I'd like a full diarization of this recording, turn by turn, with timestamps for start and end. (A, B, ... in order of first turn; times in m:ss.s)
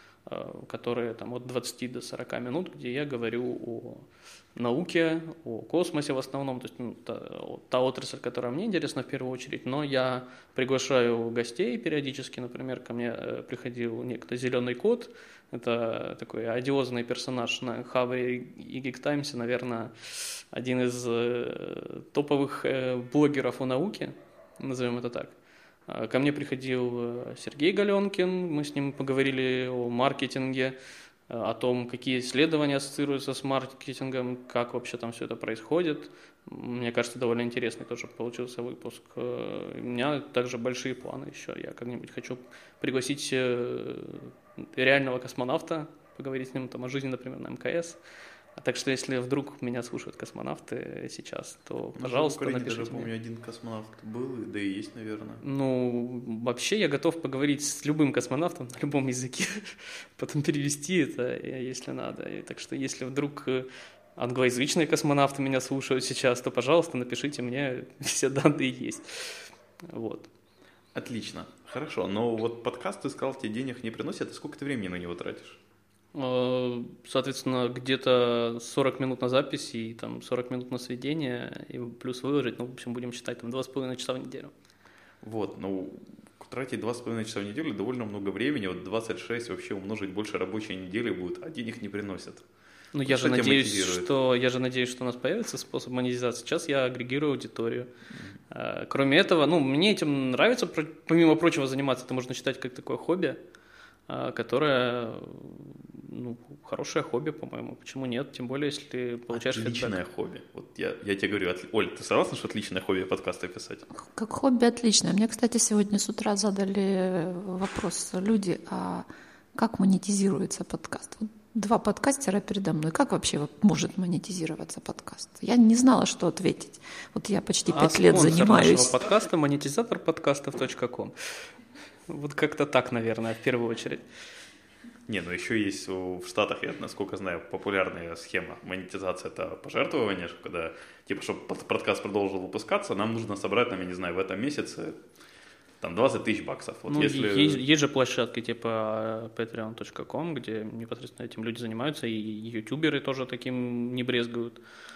0:00.3-0:25.3 A
0:25.9-0:30.8 A
0:31.3-0:48.0 A
0:48.6-0:53.1 A
0:52.0-0:55.4 B
0:55.4-1:10.3 A
1:10.9-1:15.6 B
1:16.1-1:24.5 A
1:25.2-1:32.4 B
1:32.9-1:37.9 A
1:33.0-1:34.1 B
1:38.5-1:43.4 A
1:44.1-1:50.0 A
1:49.3-1:53.8 B
1:53.9-2:09.0 C
2:07.7-2:11.1 A
2:12.1-2:14.0 A
2:15.1-2:25.0 B
2:25.8-2:27.6 B
2:26.9-2:34.6 A